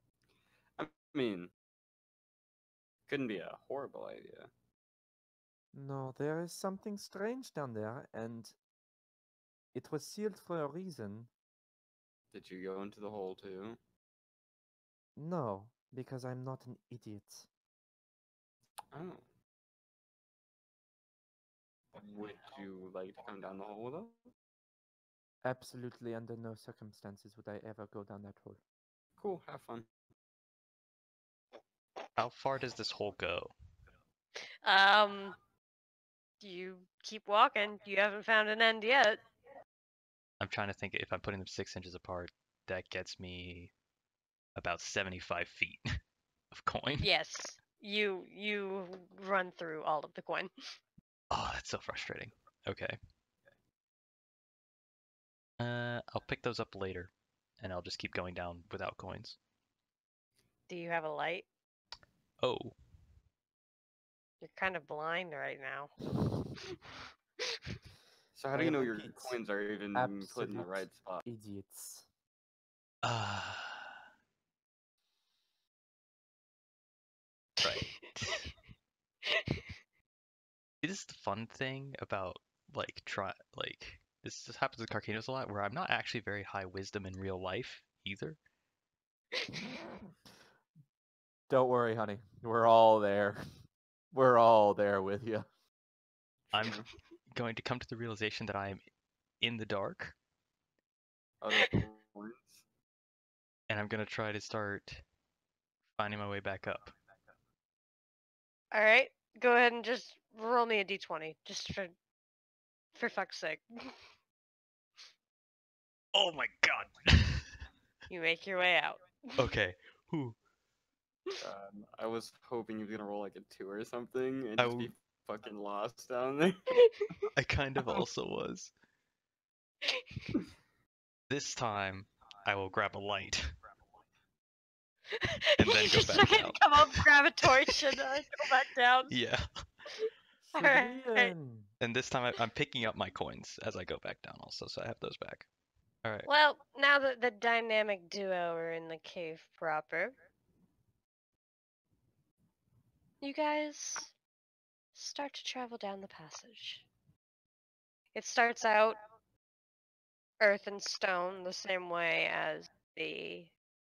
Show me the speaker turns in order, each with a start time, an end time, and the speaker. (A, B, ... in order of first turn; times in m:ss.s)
0:00.8-0:01.5 A
0:03.1-0:04.5 A
0:05.7-0:08.6 B
0:09.7-0:11.3 B
0:12.3-0:13.8 A
0:15.2-0:17.5 B
0:18.9-0:19.3 A
0:21.9-0:24.2 A
0:25.4-0:28.6 B
0:29.2-0:29.9 A
0:32.2-0:33.5 C
0:34.6-0:35.4 D
0:36.4-0:39.2 D
0:40.4-0:43.7 C
0:44.6-0:45.9 C
0:46.5-0:47.1 C
0:47.0-0:50.5 D
0:51.3-0:53.0 C
0:55.6-0:59.4 C
1:00.7-1:01.5 D
1:02.4-1:02.8 C
1:04.4-1:05.9 D
1:08.4-1:11.2 A
1:08.5-1:09.4 B
1:09.9-1:12.1 B
1:13.0-1:14.0 C
1:17.6-1:18.5 C
1:19.3-1:19.6 D
1:20.8-1:28.4 C
1:31.5-1:33.4 B
1:34.1-1:35.5 B
1:36.5-1:36.9 A
1:36.5-1:38.8 C
1:39.4-1:40.1 C
1:41.4-1:42.6 A
1:43.7-1:45.0 C
1:46.0-1:46.9 C
1:48.7-1:51.9 D
1:53.0-1:53.9 D
1:56.1-1:57.5 C
1:58.1-1:59.4 D
1:59.4-2:00.4 C
2:01.4-2:06.8 A
2:04.6-2:04.9 C
2:07.4-2:08.7 C
2:11.3-2:13.6 C
2:15.2-2:19.1 D
2:15.6-2:17.0 C
2:19.1-2:19.5 C
2:20.0-2:21.3 D
2:20.5-2:21.7 B
2:21.8-2:25.5 C
2:26.0-2:26.3 C
2:26.3-2:30.1 D
2:33.2-2:34.1 D
2:35.0-2:36.9 D
2:38.2-2:39.0 D
2:40.4-2:43.5 D